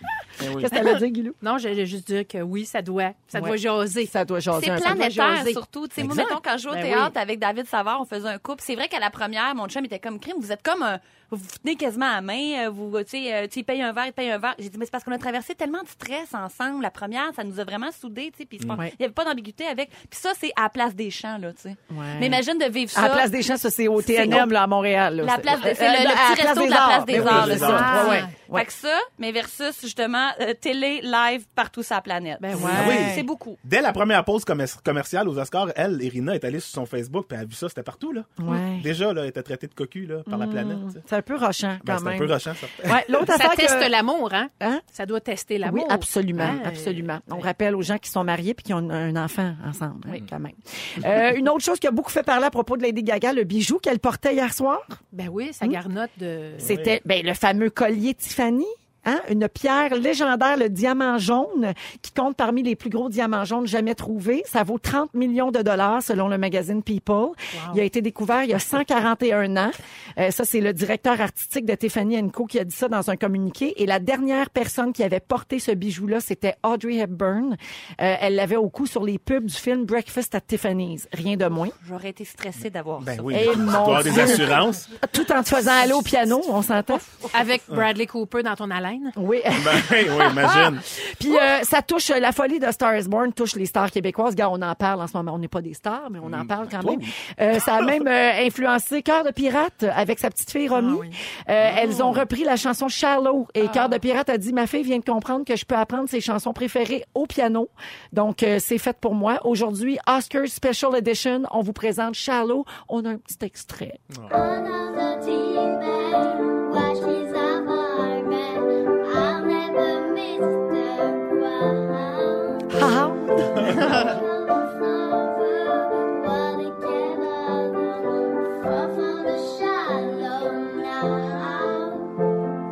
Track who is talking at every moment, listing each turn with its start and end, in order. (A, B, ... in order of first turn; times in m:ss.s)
0:00.4-0:00.7 A
0:00.4-0:01.4 B
0:01.4-0:04.1 C
0:03.3-0:06.4 B
0:04.5-0:23.3 D
0:06.7-0:07.1 C
0:21.9-0:22.4 B
0:22.9-0:28.7 B
0:24.0-0:24.5 D
0:25.2-0:33.6 D
0:27.1-0:28.1 A
0:27.6-0:28.3 C
0:32.4-0:33.1 C
0:32.5-0:33.2 B
0:32.7-0:41.0 A
0:38.4-0:38.9 B
0:40.3-0:43.9 B
0:41.8-0:43.0 A
0:43.3-0:47.4 C
0:45.6-0:55.0 B
0:55.1-0:56.7 C
0:56.6-1:21.8 B
0:56.6-0:57.0 A
1:07.5-1:07.8 C
1:21.8-1:23.6 D
1:23.0-1:24.9 A
1:23.3-1:27.3 B
1:27.3-1:29.2 C
1:29.2-1:54.0 B
1:29.5-1:30.9 A
1:36.2-1:37.1 A
1:40.7-1:41.2 C
1:41.6-1:42.2 A
1:43.6-1:44.0 C
1:54.1-1:54.4 A
1:54.3-2:02.9 E
2:02.7-2:03.8 B
2:03.6-2:04.0 A
2:03.6-2:12.2 E